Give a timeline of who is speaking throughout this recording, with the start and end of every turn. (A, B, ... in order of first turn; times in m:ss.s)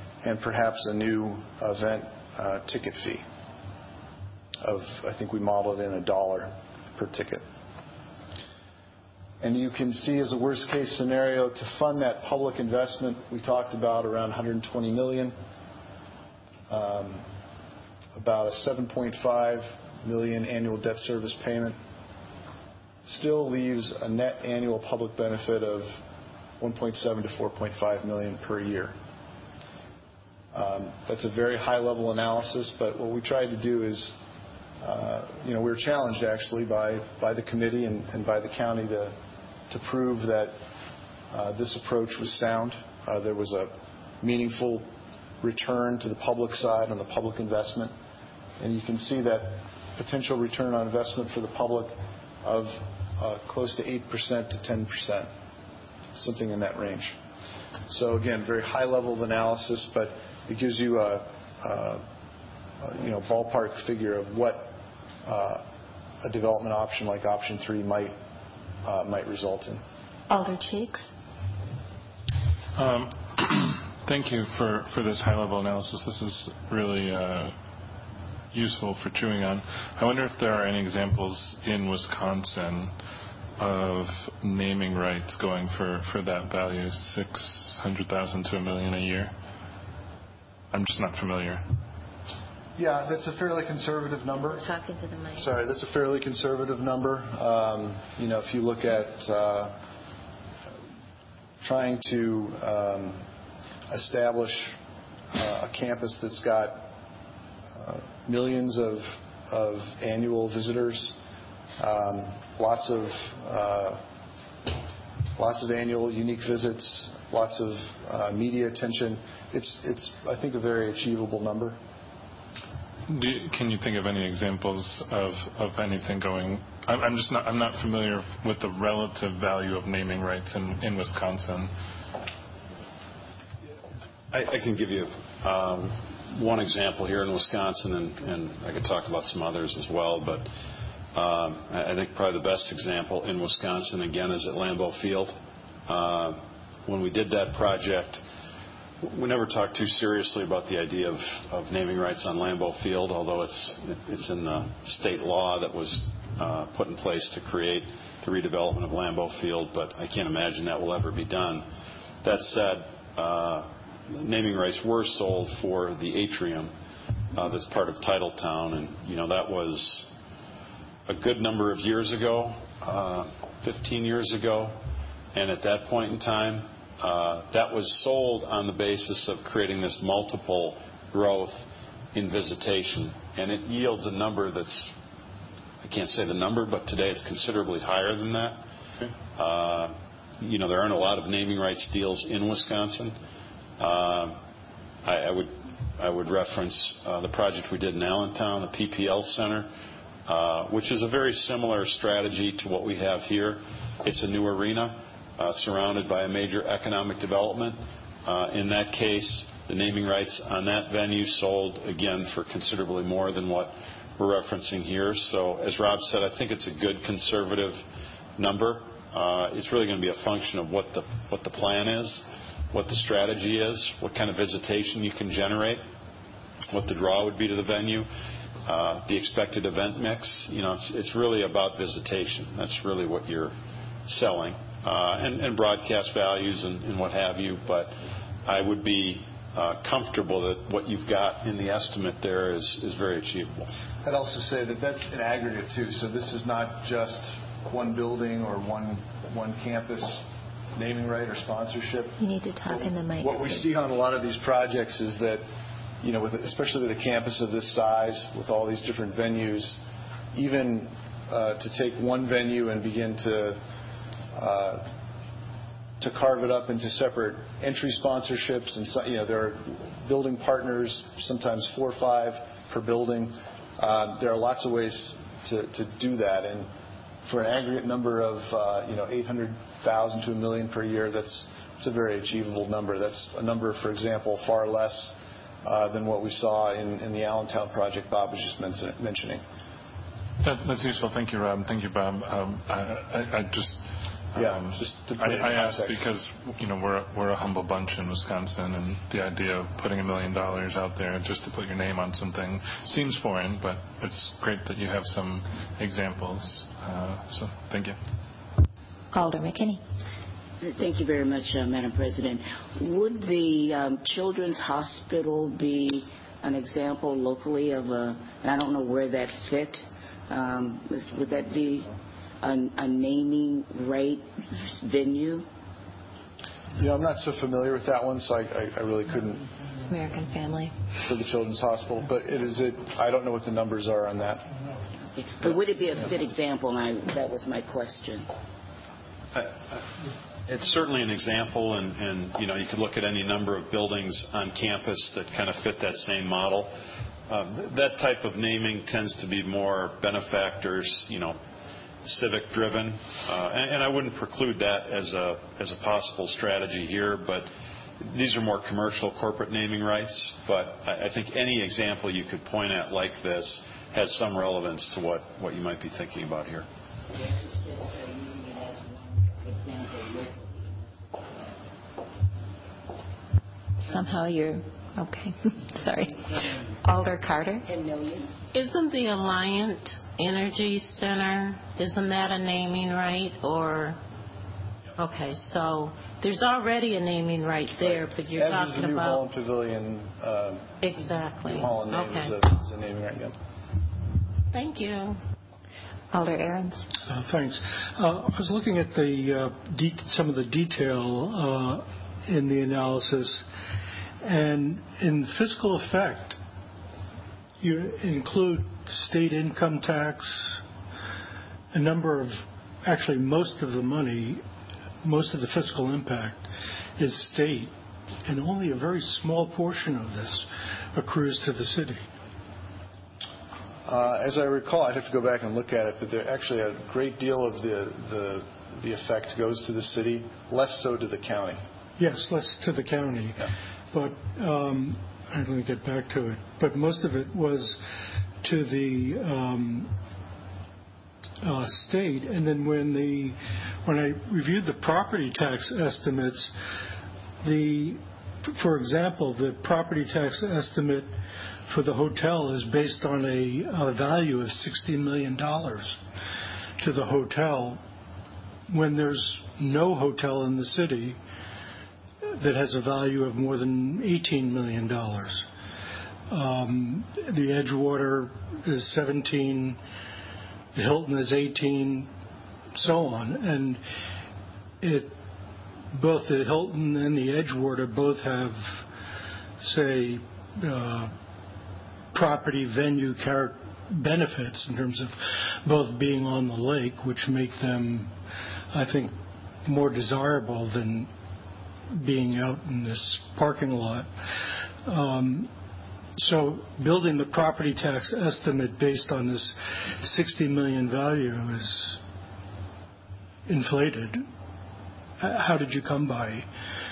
0:00.2-0:03.2 A
0:04.6-0:07.4 A
0:09.4-0:15.4 A
0:16.7-0:17.3 A
0:18.1-0:21.8 A
0:23.0-0:26.0 A
0:26.6-0:29.0 A
0:30.5-0:34.2 A
0:34.8-0:39.2 A
0:39.7-0:40.6 A
0:41.3-0:44.9 A
0:45.4-0:47.9 A
0:48.6-0:55.3 A
0:56.1-0:57.2 A
0:57.9-1:02.0 A
1:02.8-1:05.6 A
1:06.2-1:08.2 A
1:08.8-1:09.8 A
1:10.3-1:11.1 B
1:12.7-1:17.6 C
1:18.5-1:22.9 C
1:23.6-1:29.3 C
1:30.7-1:31.7 C
1:32.8-1:34.6 A
1:34.4-1:35.5 B
1:35.3-1:39.8 A
1:41.6-1:43.2 A
1:43.9-1:44.8 A
1:45.3-1:46.9 A
1:47.7-1:51.2 A
1:51.8-1:54.0 A
1:55.4-2:01.8 A
2:03.1-2:11.7 C
2:14.3-2:20.5 D
2:21.1-2:28.2 D
2:29.0-2:41.7 D
2:42.2-2:46.7 D
2:47.3-2:50.1 D
2:51.0-2:54.8 D
2:55.3-3:04.9 D
3:05.8-3:08.6 D
3:09.3-3:13.2 D
3:13.8-3:14.4 D
3:15.0-3:19.7 D
3:20.2-3:37.8 D
3:38.4-3:45.8 D
3:46.7-3:48.1 D
3:48.6-3:53.5 D
3:54.1-4:03.7 D
4:04.0-4:15.5 A
4:12.2-4:13.7 B
4:16.0-4:19.8 A
4:20.3-4:23.6 A
4:24.3-4:24.9 A
4:26.0-4:36.7 A
4:37.2-4:49.4 A
4:50.4-5:08.0 C
4:54.4-4:56.1 A
5:09.1-5:09.8 B
5:10.6-5:25.4 E
5:26.7-5:29.6 A
5:29.8-5:30.7 B
5:31.0-5:34.5 A
5:35.2-5:38.3 E
5:39.3-5:39.9 D
5:40.4-5:46.7 D
5:47.3-5:51.4 D
5:52.0-6:06.6 D
6:07.1-6:11.5 E
6:13.8-6:17.7 B
6:17.7-6:18.3 E
6:18.5-6:24.0 F
6:25.0-6:29.2 F
6:27.8-6:30.9 A
6:30.8-6:32.4 F
6:31.4-6:33.3 A
6:34.5-6:35.2 F
6:36.1-6:36.9 B
6:37.1-6:43.4 G
6:44.2-6:46.4 G
6:47.6-6:50.6 G
6:51.7-6:54.4 G
6:55.0-6:57.7 G
6:58.2-7:02.0 G
7:03.8-7:11.6 A
7:12.0-7:17.8 G
7:18.4-7:20.0 G
7:21.4-7:26.5 G
7:27.4-7:31.2 G
7:31.7-7:36.0 G
7:36.8-7:37.8 G
7:38.7-7:41.2 G
7:42.4-7:45.5 G
7:46.3-7:49.8 G
7:50.7-7:52.1 G
7:52.7-7:53.8 G
7:54.8-7:55.2 G
7:55.9-7:58.8 G
7:59.6-8:01.1 G
8:02.1-8:08.1 G
8:08.7-8:11.1 G
8:11.9-8:14.1 G
8:14.8-8:15.5 G
8:16.2-8:22.0 G
8:23.5-8:24.2 G
8:25.2-8:26.5 G